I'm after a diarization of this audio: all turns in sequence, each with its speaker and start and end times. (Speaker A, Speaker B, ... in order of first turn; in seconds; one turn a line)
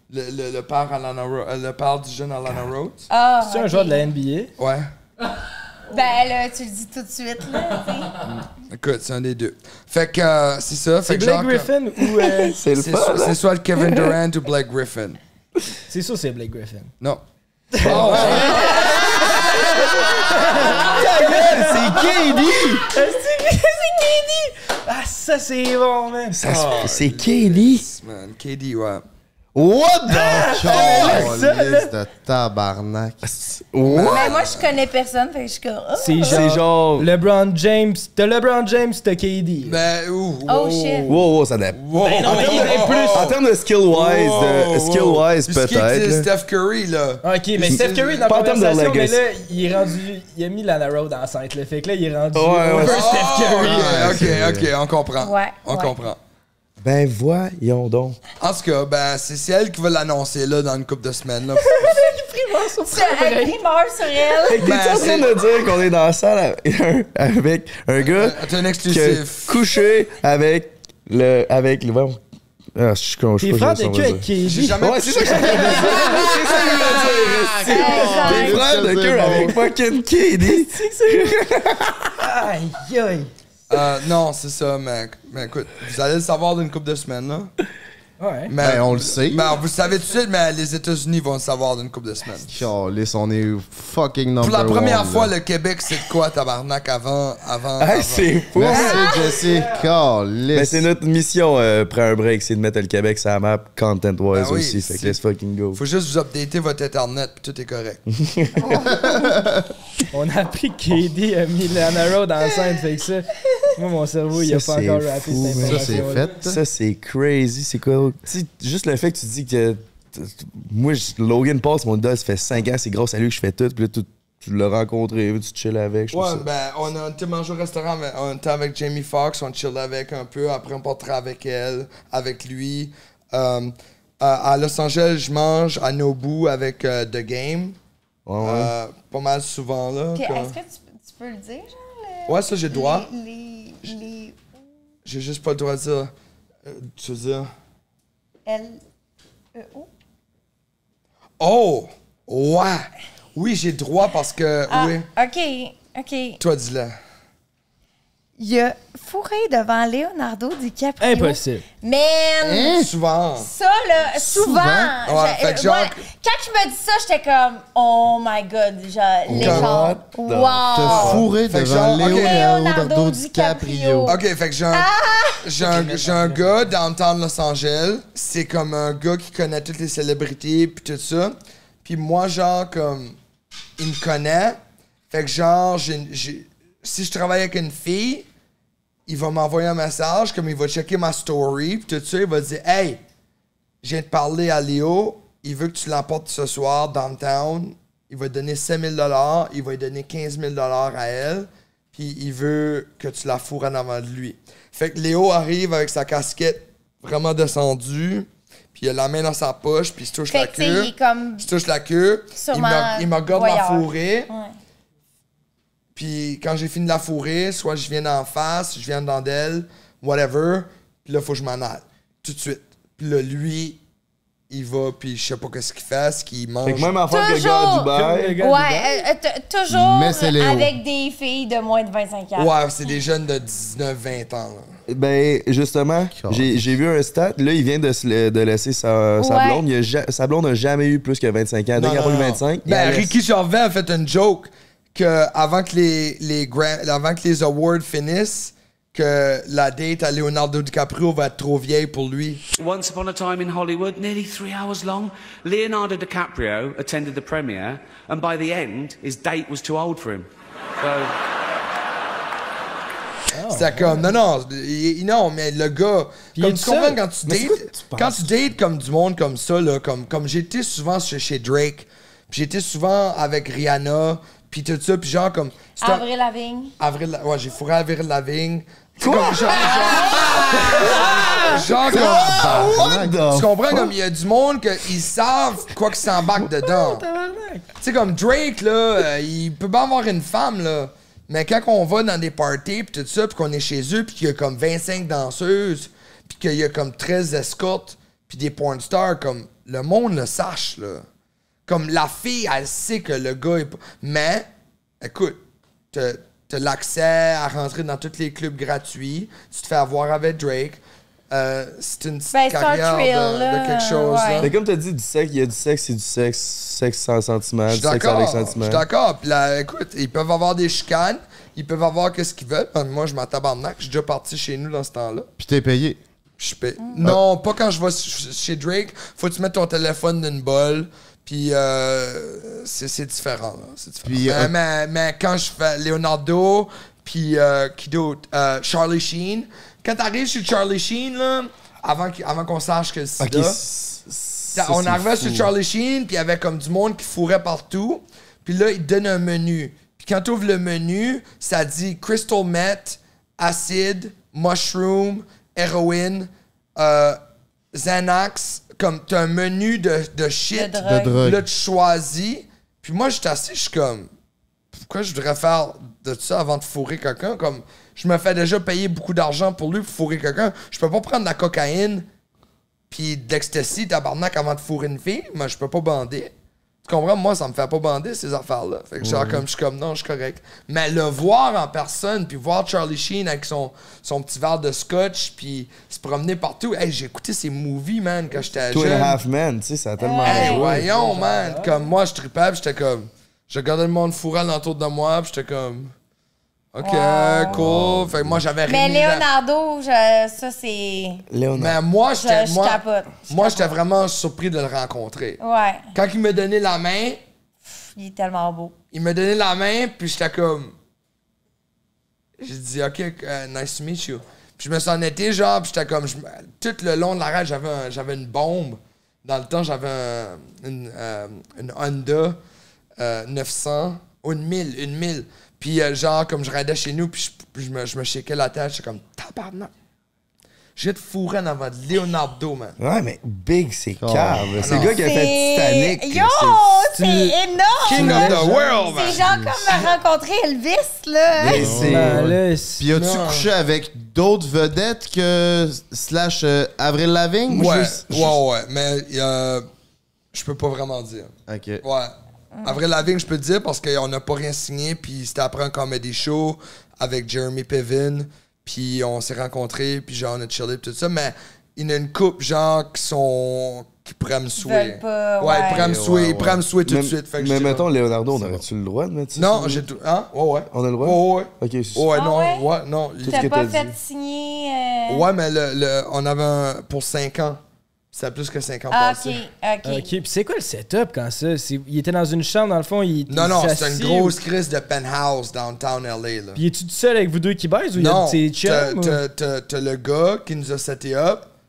Speaker A: 0.1-3.1
Speaker B: 3.1-4.1
Speaker C: 3.4-4.5
Speaker A: 4.6-4.9
Speaker B: 5.9-8.2
Speaker A: 8.2-11.7
Speaker C: 11.1-12.6
Speaker D: 12.4-14.1
Speaker A: 12.7-15.2
Speaker C: 15.9-16.9
Speaker C: 17.7-26.4
Speaker A: 17.8-19.0
Speaker E: 17.9-18.9
Speaker D: 17.9-18.6
Speaker D: 20.6-22.9
Speaker D: 26.3-27.9
Speaker A: 26.4-29.0
Speaker E: 29.5-33.2
Speaker C: 30.1-31.9
Speaker A: 30.7-31.2
Speaker D: 33.2-34.3
Speaker A: 33.8-34.7
Speaker B: 34.1-36.4
Speaker C: 36.0-39.8
Speaker D: 36.2-37.1
Speaker A: 39.6-41.2
Speaker B: 40.5-41.1
Speaker D: 41.1-46.3
Speaker A: 41.8-43.4
Speaker C: 42.0-43.3
Speaker A: 43.9-48.3
Speaker C: 47.2-53.8
Speaker D: 47.6-49.2
Speaker D: 52.3-53.2
Speaker A: 52.8-56.2
Speaker E: 53.6-54.7
Speaker D: 54.0-54.3
Speaker B: 55.2-56.0
Speaker D: 56.8-58.2
Speaker A: 58.4-62.0
Speaker C: 61.6-63.6
Speaker B: 62.9-64.6
Speaker D: 64.5-72.2
Speaker A: 64.6-65.3
Speaker A: 68.0-69.6
Speaker D: 72.8-74.3
Speaker C: 73.4-77.8
Speaker A: 74.4-77.2
Speaker D: 74.8-82.1
Speaker B: 77.7-78.7
Speaker E: 77.8-79.6
Speaker C: 80.4-81.4
Speaker C: 82.2-83.3
Speaker A: 83.7-87.5
Speaker C: 88.2-88.5
Speaker A: 88.5-92.5
Speaker E: 88.6-89.6
Speaker E: 92.5-95.3
Speaker A: 94.4-98.3
Speaker D: 97.8-99.0
Speaker E: 98.5-100.9
Speaker B: 98.7-99.4
Speaker D: 100.5-105.8
Speaker A: 104.3-105.2
Speaker A: 105.7-108.0
Speaker D: 108.1-108.7
Speaker E: 108.9-109.6
Speaker C: 110.1-116.3
Speaker D: 114.4-126.5
Speaker E: 115.5-116.6
Speaker A: 126.1-137.8
Speaker D: 138.3-138.7
Speaker A: 138.4-140.6
Speaker B: 140.2-144.4
Speaker A: 142.3-143.1
Speaker A: 145.1-146.1
Speaker A: 146.7-147.5
Speaker B: 148.5-148.8
Speaker B: 149.5-149.9
Speaker A: 151.4-155.1
Speaker B: 154.7-156.4
Speaker A: 156.4-157.0
Speaker B: 158.4-162.8
Speaker C: 161.0-161.6
Speaker E: 162.4-162.9
Speaker A: 162.8-163.5
Speaker B: 163.4-171.3
Speaker E: 164.1-165.0
Speaker A: 165.1-166.0
Speaker D: 169.3-171.3
Speaker A: 169.3-169.8
Speaker E: 170.7-174.2
Speaker A: 171.1-172.5
Speaker B: 172.0-174.2
Speaker A: 174.1-174.9
Speaker B: 174.7-175.5
Speaker A: 175.4-183.2
Speaker A: 183.8-184.6
Speaker A: 185.1-188.3
Speaker A: 189.1-193.0
Speaker A: 193.8-214.3
Speaker B: 210.3-211.4
Speaker B: 212.4-214.5
Speaker A: 216.0-223.8
Speaker A: 224.5-227.0
Speaker D: 226.6-228.4
Speaker B: 227.1-232.5
Speaker C: 227.9-229.1
Speaker E: 229.7-230.8
Speaker A: 232.4-234.7
Speaker D: 234.9-243.1
Speaker E: 236.1-236.7
Speaker B: 239.2-239.6
Speaker A: 241.8-252.4
Speaker F: 252.6-261.1
Speaker C: 263.3-264.1
Speaker A: 263.5-276.1
Speaker C: 266.4-267.0
Speaker D: 267.3-268.3
Speaker B: 275.8-276.7
Speaker A: 276.8-287.1
Speaker D: 279.0-283.9
Speaker B: 279.6-281.0
Speaker E: 281.8-283.2
Speaker C: 286.6-287.7
Speaker A: 287.8-301.1
Speaker A: 301.7-304.5
Speaker A: 305.0-305.4
Speaker A: 305.9-314.5
Speaker B: 312.3-314.5
Speaker D: 314.4-318.8
Speaker A: 317.7-325.3
Speaker E: 325.4-326.0
Speaker A: 326.4-343.6
Speaker E: 334.1-334.5
Speaker D: 343.2-345.5
Speaker A: 344.5-357.2
Speaker A: 357.7-364.1
Speaker B: 360.5-361.2
Speaker E: 360.8-361.4
Speaker A: 364.9-372.1
Speaker A: 372.9-376.3
Speaker A: 376.8-389.2
Speaker D: 379.0-379.4
Speaker C: 388.4-389.0
Speaker D: 388.7-390.9
Speaker B: 390.0-390.7
Speaker A: 390.2-395.9
Speaker C: 390.8-391.9
Speaker A: 396.7-399.3
Speaker B: 396.8-397.6
Speaker D: 397.5-398.4
Speaker B: 398.7-401.3
Speaker D: 401.3-401.8
Speaker A: 401.6-405.4
Speaker B: 402.1-403.8
Speaker B: 405.4-405.9
Speaker A: 405.9-407.2
Speaker B: 407.9-408.7
Speaker A: 408.9-410.7
Speaker A: 412.4-422.4
Speaker A: 423.0-429.7
Speaker A: 430.8-432.8
Speaker D: 432.8-436.9
Speaker E: 434.0-434.9
Speaker A: 434.6-435.0
Speaker B: 435.0-441.8
Speaker C: 436.9-439.0
Speaker A: 437.9-439.3
Speaker E: 439.2-439.7
Speaker D: 441.4-442.3
Speaker E: 441.4-442.3
Speaker C: 441.6-442.9
Speaker E: 442.8-448.3
Speaker A: 442.9-443.5
Speaker A: 447.5-449.7
Speaker D: 447.6-448.3
Speaker A: 450.3-467.9
Speaker E: 451.5-451.8
Speaker B: 464.6-465.9
Speaker E: 465.5-466.6
Speaker D: 466.9-469.8
Speaker E: 468.3-468.6
Speaker A: 469.4-473.7
Speaker D: 470.7-472.1
Speaker B: 472.1-472.6
Speaker D: 473.2-473.9
Speaker B: 473.2-475.2
Speaker A: 475.1-477.6
Speaker A: 478.1-479.4
Speaker B: 478.9-480.1
Speaker C: 479.9-484.4
Speaker A: 483.3-486.6
Speaker C: 486.6-489.2
Speaker A: 488.0-491.5